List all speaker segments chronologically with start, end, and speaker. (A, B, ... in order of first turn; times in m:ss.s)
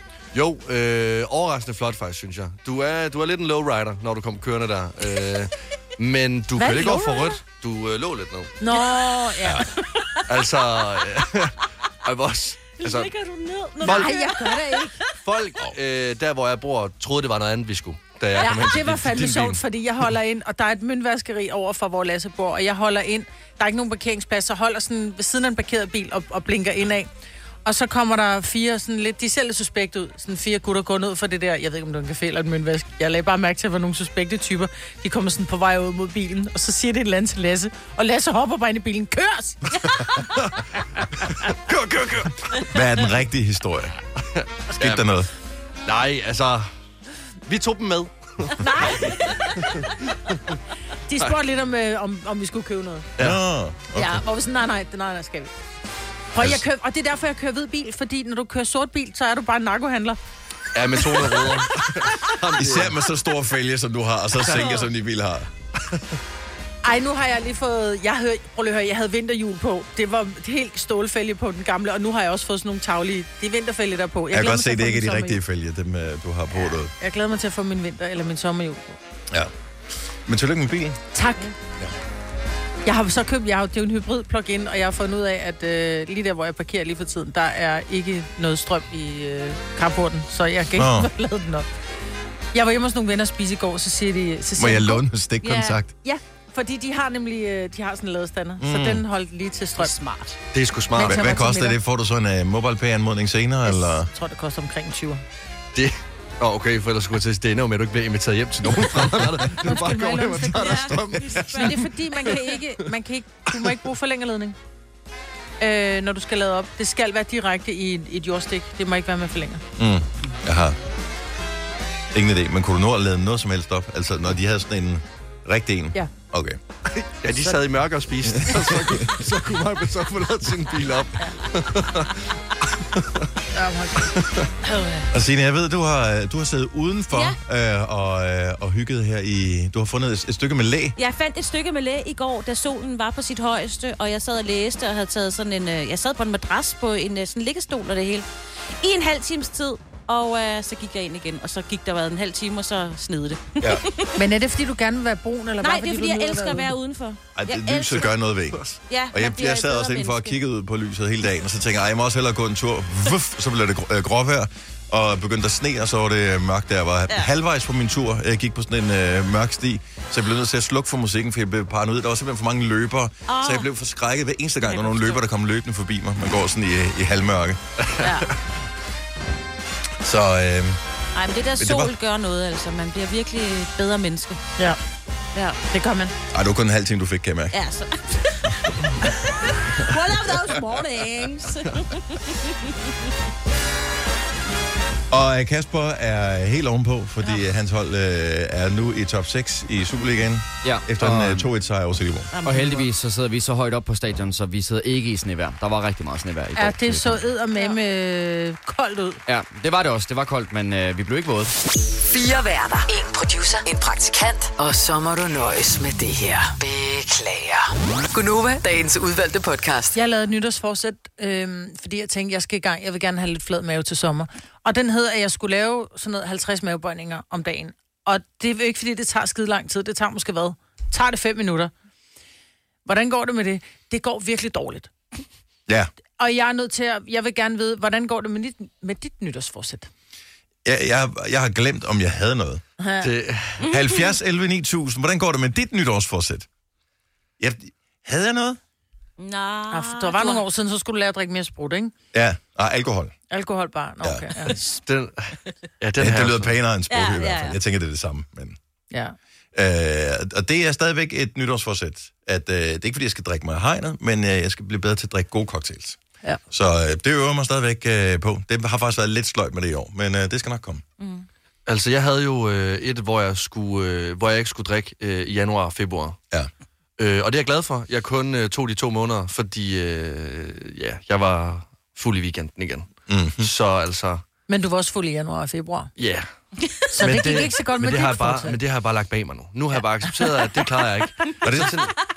0:00.3-0:08.6 A
0:06.6-0:07.4 B
0:08.6-0:09.7 B
0:09.0-0:09.4 C
0:10.3-0:13.1 A
0:12.8-0:15.1 C
0:13.8-0:14.1 A
0:13.8-0:15.0 B
0:15.2-0:19.6 A
0:18.4-0:27.1 B
0:27.6-0:39.9 B
0:41.5-0:42.6 A
0:42.7-0:44.0 D
0:44.4-0:45.0 A
0:44.8-0:45.3 D
0:45.8-0:46.7 A
0:47.5-0:48.6 A
0:48.6-0:49.3 B
0:51.1-0:53.1 B
0:53.2-0:54.2 D
0:54.0-0:55.5 B
0:56.4-1:00.2 B
0:56.4-0:56.6 D
1:00.7-1:03.0 A
1:02.6-1:05.5 D
1:04.4-1:04.8 A
1:06.8-1:15.4 B
1:14.3-1:16.9 D
1:16.5-1:19.0 B
1:20.3-1:21.0 D
1:21.1-1:21.5 B
1:22.8-1:31.7 B
1:30.8-1:31.1 D
1:32.5-1:40.0 B
1:34.6-1:35.9 D
1:38.6-1:39.0 D
1:39.8-1:40.3 C
1:40.5-1:41.3 A
1:41.0-1:41.8 B
1:41.0-1:44.1 D
1:43.7-1:45.2 B
1:45.8-1:52.5 A
1:48.7-1:49.3 D
1:49.6-1:54.6 B
1:50.5-1:51.9 C
1:55.6-1:59.6 B
1:59.8-2:00.8 D
2:02.1-2:06.6 D
2:07.0-2:12.2 A
2:08.3-2:09.1 D
2:13.5-2:15.0 B
2:14.2-2:14.5 A
2:15.1-2:21.0 D
2:17.1-2:17.4 C
2:21.0-2:28.3 C
2:28.8-2:34.1 C
2:34.2-2:36.7 B
2:35.6-2:38.1 C
2:37.4-2:57.6 D
2:38.9-2:40.4 C
2:53.3-2:53.7 C
2:54.6-2:55.2 C
2:57.8-2:58.1 A
2:58.0-2:58.2 C
3:00.0-3:00.8 D
3:01.2-3:04.5 C
3:01.6-3:01.9 D
3:05.4-3:05.6 C
3:05.6-3:06.1 B
3:06.3-3:07.6 D
3:07.5-3:08.6 C
3:09.7-3:12.5 C
3:09.9-3:11.2 B
3:15.1-3:22.3 D
3:20.6-3:21.5 E
3:22.3-3:22.9 C
3:22.4-3:27.2 E
3:26.6-3:29.2 B
3:29.3-3:31.5 E
3:32.0-3:40.0 F
3:39.9-3:51.7 B
3:52.8-3:54.9 B
3:56.2-3:59.9 B
4:00.6-4:02.6 D
4:02.8-4:03.1 B
4:03.0-4:03.6 A
4:03.6-4:04.1 C
4:03.7-4:06.5 D
4:07.4-4:08.6 D
4:09.2-4:10.4 C
4:09.7-4:11.9 B
4:12.1-4:13.1 D
4:13.3-4:14.7 B
4:14.0-4:14.3 D
4:14.9-4:16.6 A
4:16.0-4:18.6 D
4:16.9-4:17.6 C
4:18.9-4:19.2 B
4:19.5-4:26.0 D
4:26.5-4:30.8 D
4:31.0-4:31.3 C
4:31.7-4:36.2 A
4:37.0-4:44.2 A
4:43.1-4:43.5 D
4:44.5-4:45.9 B
4:46.0-4:46.3 A
4:47.0-4:48.6 B
4:47.0-4:51.9 A
4:51.4-4:51.8 D